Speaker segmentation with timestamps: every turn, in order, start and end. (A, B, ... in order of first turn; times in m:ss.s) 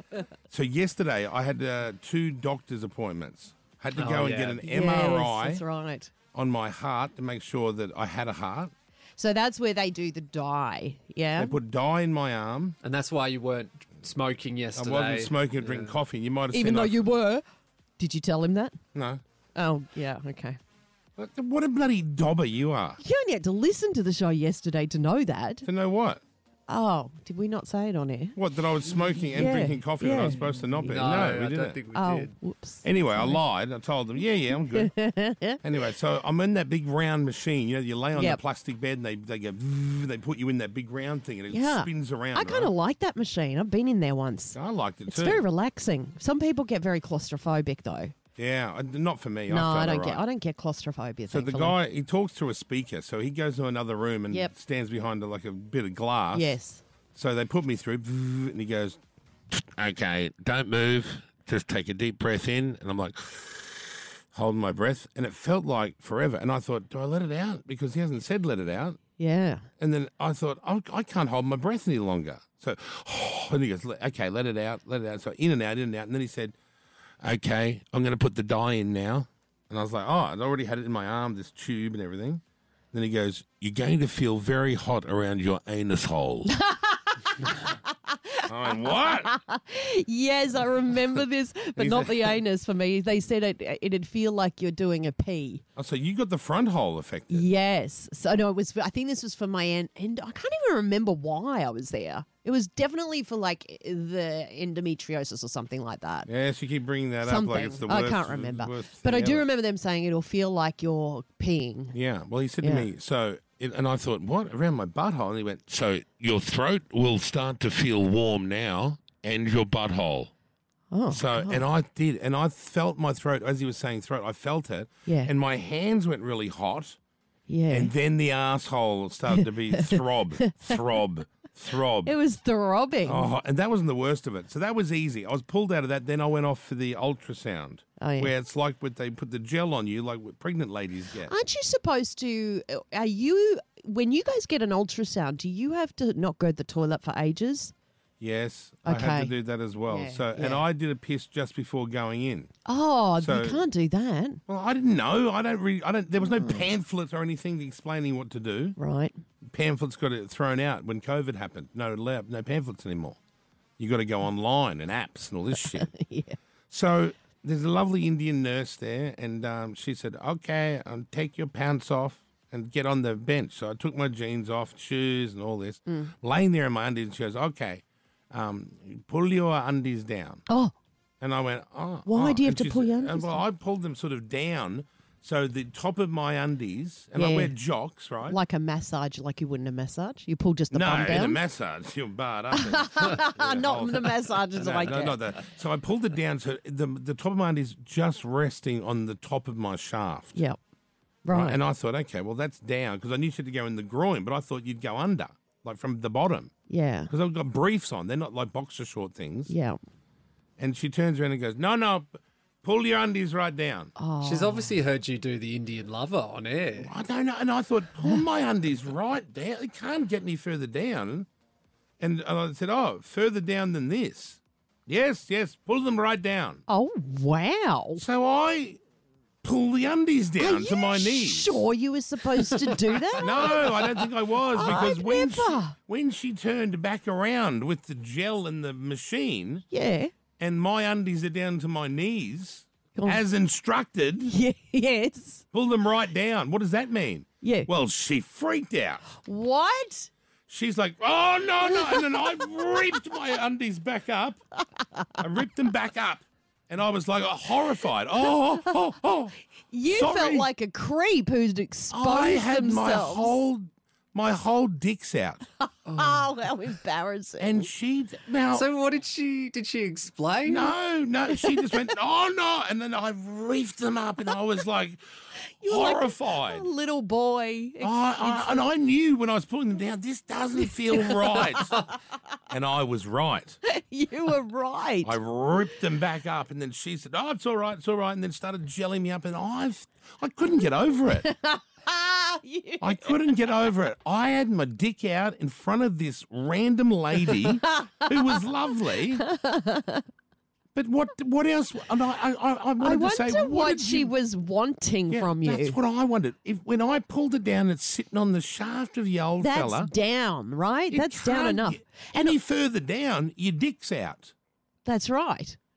0:00.5-0:05.6 A
0:04.0-0:04.6 B
0:04.6-0:06.1 C
0:06.3-0:08.7 A
0:09.2-0:11.6 C
0:11.4-0:12.8 A
0:12.8-0:15.9 B
0:14.7-0:17.1 A
0:16.5-0:17.4 C
0:18.0-0:18.8 C
0:18.9-0:19.2 A
0:19.5-0:20.6 C
0:21.2-0:23.0 A
0:23.0-0:25.7 C
0:25.6-0:26.2 A
0:26.7-0:28.4 C
0:28.3-0:31.8 A
0:29.2-0:30.4 C
0:30.8-0:32.3 B
0:31.9-0:33.4 C
0:32.8-0:34.9 A
0:34.6-0:35.6 C
0:35.6-0:42.7 A
0:38.1-0:38.4 C
0:41.5-0:48.1 C
0:44.5-0:45.4 A
0:48.4-0:50.2 A
0:49.5-0:51.8 C
0:51.3-0:56.6 A
0:56.3-0:56.8 C
0:57.1-0:59.0 A
0:59.5-1:09.0 A
1:09.2-1:09.6 C
1:09.8-1:16.5 A
1:17.2-1:22.4 A
1:22.9-1:26.5 A
1:26.5-1:35.6 C
1:28.5-1:29.3 A
1:31.8-1:32.4 A
1:35.8-1:37.5 A
1:37.3-1:46.3 C
1:46.3-1:49.4 A
1:47.2-1:52.0 C
1:51.9-2:00.3 A
1:52.6-1:52.9 C
2:00.9-2:01.6 C
2:01.1-2:07.0 A
2:05.1-2:05.3 C
2:07.5-2:07.9 C
2:07.7-2:12.1 A
2:09.3-2:10.9 C
2:12.0-2:13.3 C
2:13.0-2:21.3 A
2:18.0-2:18.3 C
2:21.2-2:27.7 C
2:28.2-2:32.5 A
2:28.8-2:29.3 C
2:29.8-2:30.6 C
2:32.6-2:34.4 C
2:33.2-2:33.7 A
2:34.4-2:38.8 A
2:36.2-2:36.6 C
2:38.8-2:39.1 C
2:39.4-2:43.2 A
2:43.8-2:45.9 A
2:45.7-2:46.4 C
2:46.7-3:00.4 A
2:55.9-2:56.1 C
3:00.5-3:00.7 C
3:01.2-3:08.4 A
3:02.0-3:03.4 C
3:07.1-3:07.6 C
3:08.2-3:11.4 C
3:10.7-3:20.4 A
3:12.5-3:15.2 C
3:21.2-3:21.6 C
3:21.3-3:26.5 A
3:26.7-3:27.1 C
3:27.1-3:29.5 A
3:29.5-3:29.8 C
3:30.6-3:33.9 A
3:34.0-3:34.8 C
3:34.2-3:36.9 B
3:36.8-3:41.3 A
3:42.0-3:46.6 A
3:46.7-3:48.0 C
3:48.0-3:48.8 A
3:49.4-3:51.6 A
3:50.4-3:53.6 C
3:53.2-3:59.6 A
3:54.5-3:55.8 C
3:59.7-4:00.1 C
4:00.4-4:04.3 A
4:04.2-4:05.4 C
4:05.5-4:09.0 A
4:07.4-4:07.7 C
4:09.2-4:10.1 C
4:10.5-4:14.4 A
4:11.7-4:12.8 C
4:15.2-4:20.5 A
4:19.7-4:23.4 C
4:21.9-4:25.4 A
4:25.6-4:27.7 C
4:25.8-4:26.2 B
4:27.4-4:28.7 A
4:28.5-4:30.7 B
4:30.4-4:36.7 A
4:31.3-4:31.9 C
4:35.6-4:38.6 C
4:37.8-4:41.8 A
4:40.9-4:41.7 C
4:42.5-4:43.6 A
4:43.6-4:45.2 C
4:45.0-4:51.3 A
4:51.1-4:53.2 C
4:52.8-4:59.2 A
4:57.7-4:58.4 C
4:59.2-5:00.0 C
5:00.7-5:04.1 A
5:02.8-5:05.8 C
5:05.1-5:09.9 A
5:09.4-5:12.4 C
5:10.9-5:14.3 A
5:14.8-5:15.6 C